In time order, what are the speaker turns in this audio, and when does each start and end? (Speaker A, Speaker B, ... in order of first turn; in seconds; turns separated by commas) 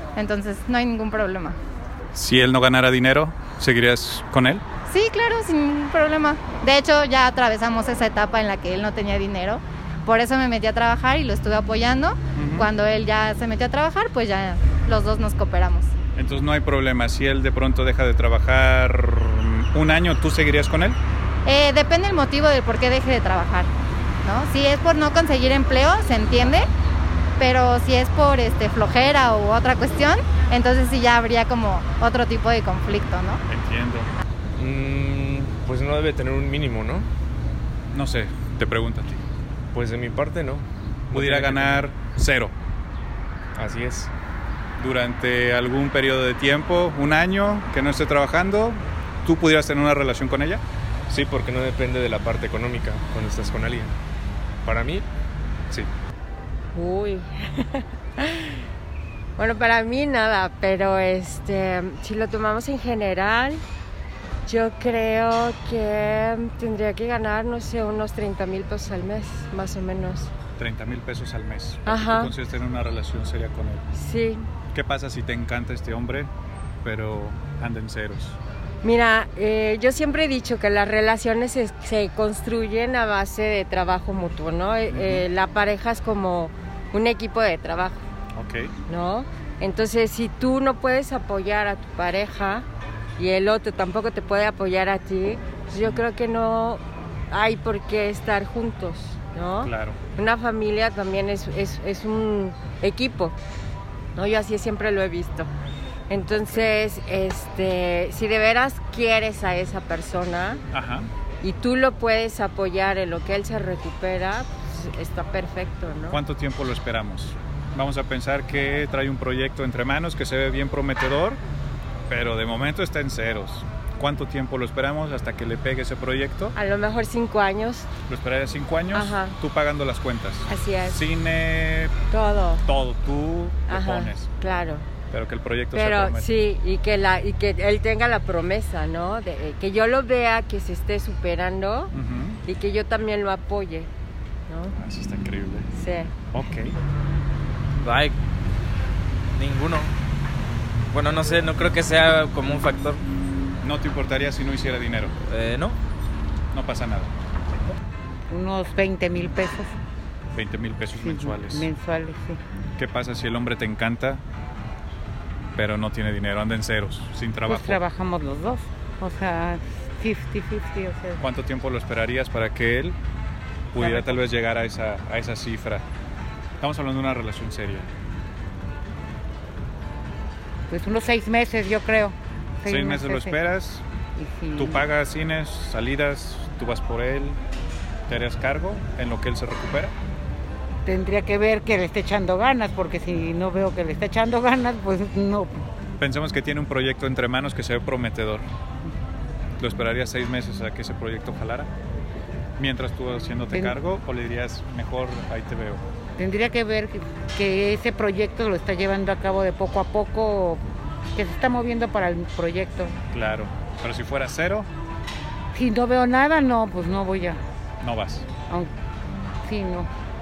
Speaker A: 0.5-1.5, Speaker B: 2.1-4.6, Speaker A: 5.0-5.4, Speaker A: 6.0-15.9, Speaker B: 12.3-12.7, Speaker B: 16.2-21.0, Speaker A: 21.5-23.6, Speaker A: 24.3-26.6, Speaker A: 27.6-33.4, Speaker B: 33.5-34.1, Speaker C: 34.6-37.1, Speaker B: 37.9-39.2, Speaker C: 39.7-41.9, Speaker B: 41.1-42.5, Speaker C: 43.5-44.1, Speaker B: 44.8-50.6, Speaker C: 51.1-53.9, Speaker C: 54.6-55.1, Speaker D: 56.8-58.5, Speaker D: 59.4-63.6, Speaker D: 64.5-70.3, Speaker B: 70.6-73.8, Speaker D: 71.9-72.3, Speaker D: 73.9-74.4, Speaker B: 74.7-76.3, Speaker B: 76.8-78.4, Speaker D: 78.8-88.0, Speaker B: 84.9-85.2, Speaker B: 88.3-88.7, Speaker D: 88.9-92.6, Speaker D: 93.2-96.8, Speaker B: 95.8-96.1, Speaker D: 97.3-103.3, Speaker B: 99.6-100.0, Speaker D: 104.2-105.5, Speaker D: 106.1-110.6, Speaker B: 106.3-106.7, Speaker B: 110.7-111.1, Speaker D: 111.4-116.1, Speaker B: 116.1-121.4, Speaker B: 122.1-126.5, Speaker D: 126.5-127.9, Speaker B: 128.1-131.9, Speaker D: 128.9-129.3, Speaker D: 130.5-130.9, Speaker D: 132.1-132.6, Speaker B: 132.6-134.3, Speaker D: 133.7-134.8, Speaker B: 135.1-136.3, Speaker D: 135.8-141.9, Speaker B: 141.9-142.4, Speaker D: 142.4-143.9, Speaker B: 144.7-145.7, Speaker D: 145.7-146.1, Speaker B: 146.3-146.7, Speaker E: 147.8-148.1, Speaker E: 149.4-149.9, Speaker E: 150.9-153.0, Speaker B: 153.6-155.1, Speaker E: 155.3-155.7, Speaker B: 156.5-157.1, Speaker F: 158.3-159.7, Speaker B: 160.3-161.7, Speaker F: 161.0-162.4, Speaker B: 162.8-164.2, Speaker B: 165.6-167.8, Speaker F: 167.5-171.2, Speaker B: 171.2-173.0, Speaker B: 173.7-175.8, Speaker F: 173.8-174.1, Speaker B: 176.6-177.9, Speaker F: 180.7-183.3, Speaker B: 182.7-183.8, Speaker F: 184.2-184.8, Speaker B: 184.5-187.4, Speaker B: 188.1-189.9, Speaker F: 190.8-195.5, Speaker B: 196.0-198.4, Speaker B: 199.6-201.7, Speaker B: 202.6-205.8, Speaker F: 206.2-210.6, Speaker F: 211.1-212.9, Speaker B: 213.1-214.7, Speaker F: 215.5-217.4, Speaker B: 217.8-218.2, Speaker F: 219.4-219.9